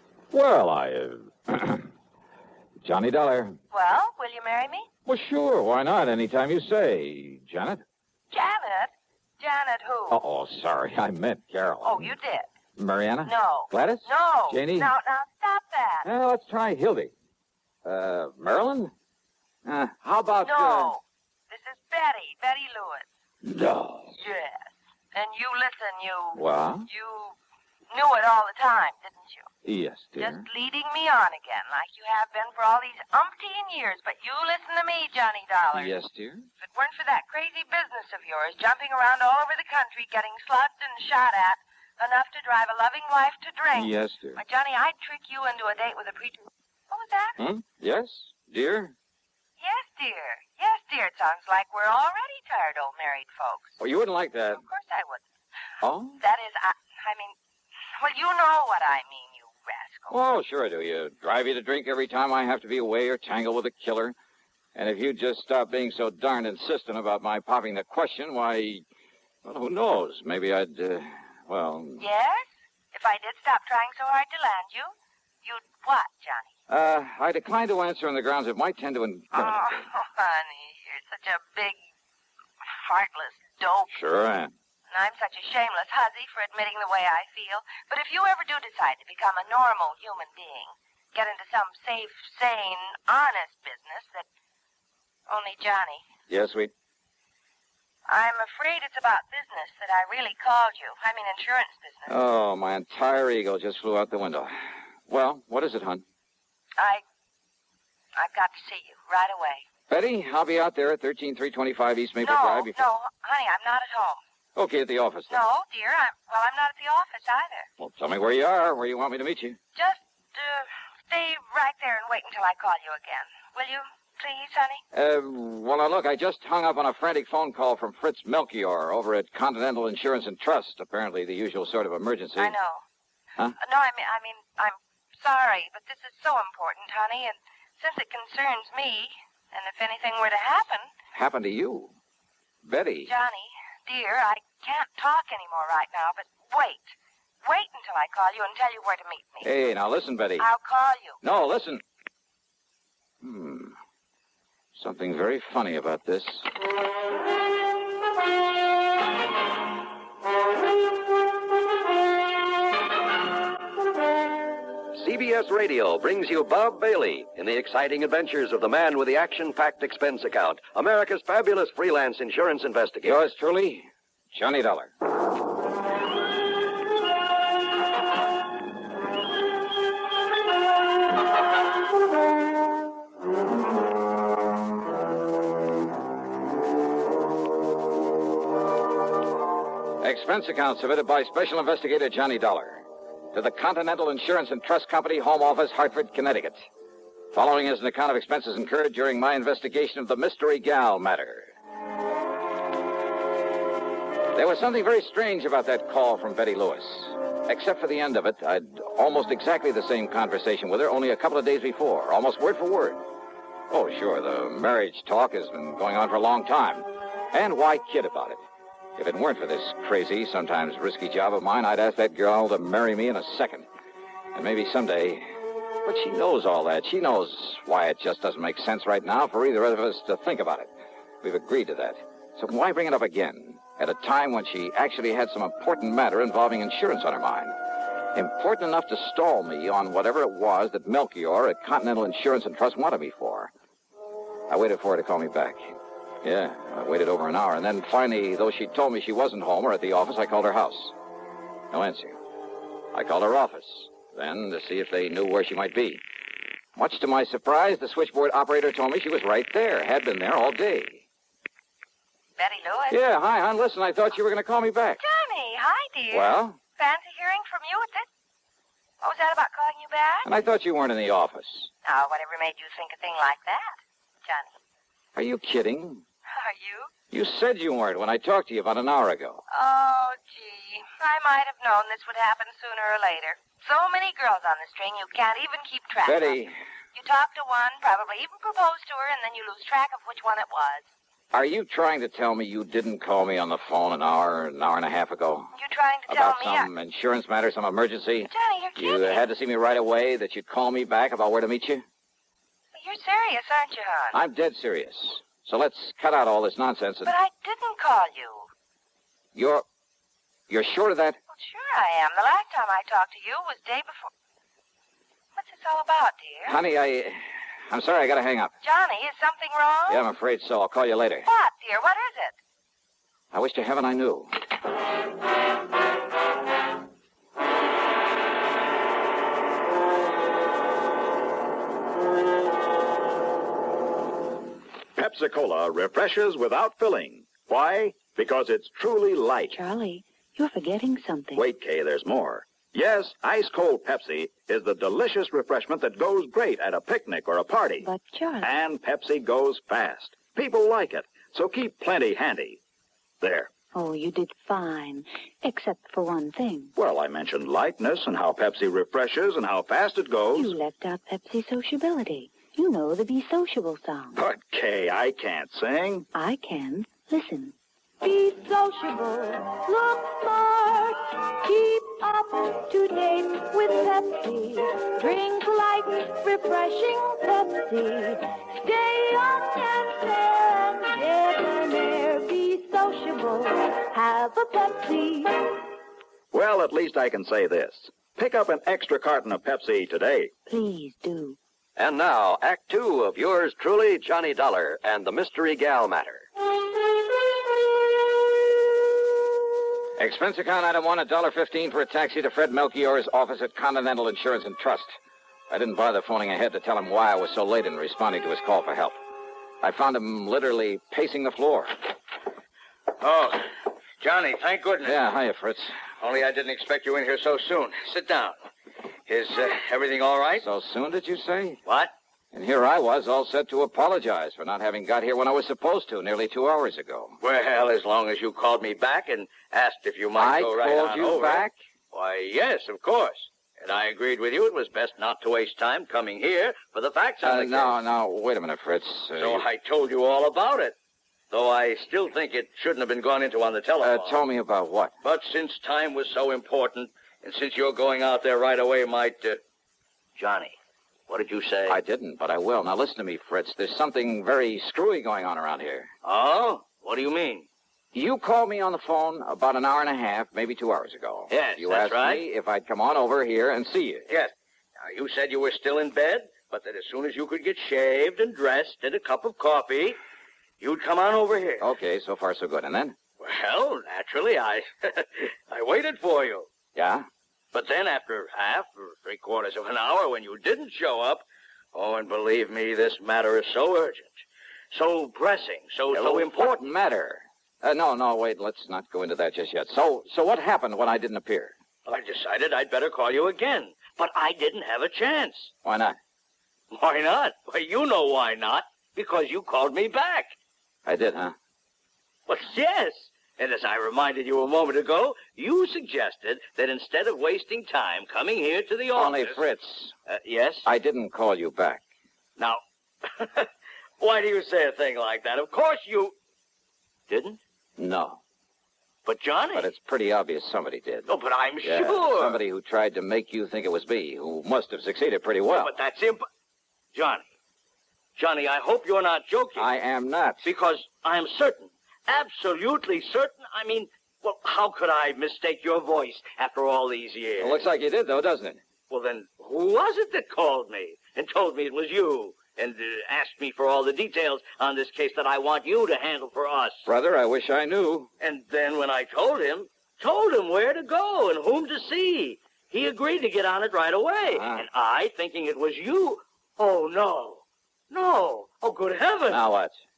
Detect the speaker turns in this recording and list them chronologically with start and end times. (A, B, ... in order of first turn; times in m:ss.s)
0:00.3-0:01.9 A
0:02.8-0:03.6 A
0:03.7-0:04.9 B
0:05.0-0:07.8 A
0:08.3-0:10.2 B
0:10.1-0:12.1 A
0:11.8-0:12.5 B
0:12.8-0:14.9 A
0:13.2-0:16.1 B
0:16.0-0:17.1 A
0:17.8-0:18.9 A
0:19.6-0:20.9 A
0:20.4-0:23.0 B
0:23.4-0:24.2 A
0:24.2-0:27.4 B
0:26.3-0:26.9 A
0:27.9-0:29.5 B
0:29.6-0:30.4 A
0:30.2-0:35.9 B
0:35.7-0:36.5 A
0:36.6-0:47.4 B
0:43.7-0:44.4 A
0:47.4-0:48.9 A
0:49.6-0:53.8 B
0:53.8-0:54.6 A
0:54.5-0:55.2 B
0:55.8-0:56.2 A
0:56.2-0:57.3 B
0:58.0-1:00.2 B
1:00.1-1:04.2 A
1:04.7-1:08.8 A
1:09.4-1:12.0 A
1:12.0-1:14.9 B
1:15.4-1:16.5 B
1:16.7-1:19.7 A
1:19.3-1:21.8 B
1:22.8-1:23.9 B
1:23.9-1:24.5 A
1:24.9-1:34.2 B
1:35.3-1:36.0 B
1:36.3-1:36.7 A
1:38.1-1:42.2 B
1:42.1-1:46.0 A
1:46.8-1:47.0 B
1:48.2-1:49.6 B
1:49.9-1:52.8 A
1:52.2-1:54.2 B
1:54.5-1:55.4 A
1:55.3-1:57.7 B
1:57.8-1:59.6 A
1:59.7-2:04.8 B
2:04.9-2:12.6 A
2:12.4-2:12.8 B
2:13.6-2:20.9 B
2:21.1-2:21.9 A
2:22.6-2:23.1 A
2:23.0-2:26.9 B
2:27.4-2:29.5 B
2:29.4-2:30.5 A
2:30.4-2:31.2 B
2:31.2-2:31.8 A
2:33.2-2:33.8 A
2:34.7-2:36.5 A
2:44.9-2:53.2 C
2:53.0-2:54.9 A
3:10.0-3:16.6 A
3:17.3-3:21.5 A
3:24.3-3:33.0 A
3:33.7-3:38.4 A
3:39.0-3:43.7 A
3:44.3-3:45.3 A
3:45.8-3:50.7 A
3:51.2-3:57.5 A
3:58.1-4:03.5 A
4:04.5-4:05.7 A
4:06.2-4:10.9 A
4:11.7-4:12.2 A
4:12.9-4:16.0 A
4:16.8-4:21.0 A
4:22.4-4:23.0 B
4:22.9-4:25.0 A
4:25.0-4:28.1 B
4:26.1-4:26.6 A
4:29.0-4:30.3 B
4:30.2-4:31.7 A
4:31.8-4:34.5 B
4:35.1-4:36.0 A
4:36.3-4:36.9 B
4:37.1-4:39.4 A
4:39.5-4:46.4 B
4:46.0-4:46.5 A
4:46.9-4:50.9 B
4:51.3-4:55.5 A
4:55.6-4:56.7 B
4:56.1-5:01.8 A
4:58.2-4:59.2 B
5:02.7-5:04.2 B
5:04.1-5:07.1 A
5:07.0-5:08.5 B
5:09.3-5:09.6 A
5:10.5-5:11.2 A
5:11.3-5:14.1 B
5:15.4-5:16.6 B
5:16.4-5:18.5 A
5:18.6-5:20.0 B
5:19.9-5:21.2 A
5:21.2-5:22.4 B
5:23.3-5:24.3 A
5:35.0-5:39.5 D
5:39.5-5:41.4 E
5:41.3-5:47.8 D
5:47.8-5:48.5 E
5:48.4-5:52.6 D
5:53.2-5:53.5 D
5:53.7-5:56.7 E
5:56.7-6:00.6 D
6:00.3-6:04.2 E
6:04.1-6:06.1 D
6:06.1-6:07.5 E
6:08.0-6:25.5 B
6:26.3-6:30.3 D
6:30.5-6:31.4 E
6:31.8-6:36.3 C
6:40.0-6:45.0 A
6:45.5-6:49.0 A
6:49.6-6:51.8 A
6:53.0-6:55.0 F
6:54.8-6:55.8 A
6:56.0-6:58.4 F
6:59.1-7:00.4 F
7:00.4-7:01.6 A
7:01.6-7:01.9 F
7:02.3-7:07.2 A
7:07.2-7:17.7 F
7:10.1-7:11.6 A
7:17.2-7:19.4 A
7:19.2-7:20.7 F
7:21.3-7:24.2 F
7:23.8-7:24.9 A
7:25.0-7:29.4 F
7:30.2-7:30.6 F
7:31.1-7:31.8 F
7:31.7-7:35.9 A
7:36.0-7:37.5 F
7:37.9-7:44.1 A
7:41.3-7:42.2 F
7:44.1-7:50.0 F
7:50.6-7:51.7 F
7:51.6-7:53.0 A
7:53.2-7:56.5 F
7:56.7-7:57.1 A
7:57.5-8:04.1 F
8:04.7-8:06.7 F
8:05.9-8:11.5 A
8:11.8-8:15.5 F
8:15.6-8:16.0 A
8:16.7-8:20.4 F
8:20.8-8:21.3 A
8:22.3-8:29.4 F
8:28.9-8:29.9 A
8:30.1-8:30.6 F
8:30.6-8:31.8 A
8:32.4-8:33.5 F
8:34.0-8:36.1 F
8:37.1-8:37.4 F
8:37.8-8:38.2 A
8:39.0-8:39.7 F
8:39.5-8:41.1 A
8:41.1-8:42.4 F
8:41.6-8:45.7 A
8:45.5-8:46.2 F
8:46.9-8:47.3 F
8:48.2-8:49.7 F
8:49.6-8:50.4 A
8:50.4-8:57.6 F
8:57.4-8:58.6 A
8:58.9-9:06.8 F
9:06.8-9:08.1 A
9:08.2-9:19.4 F
9:14.3-9:14.6 A
9:19.3-9:19.8 A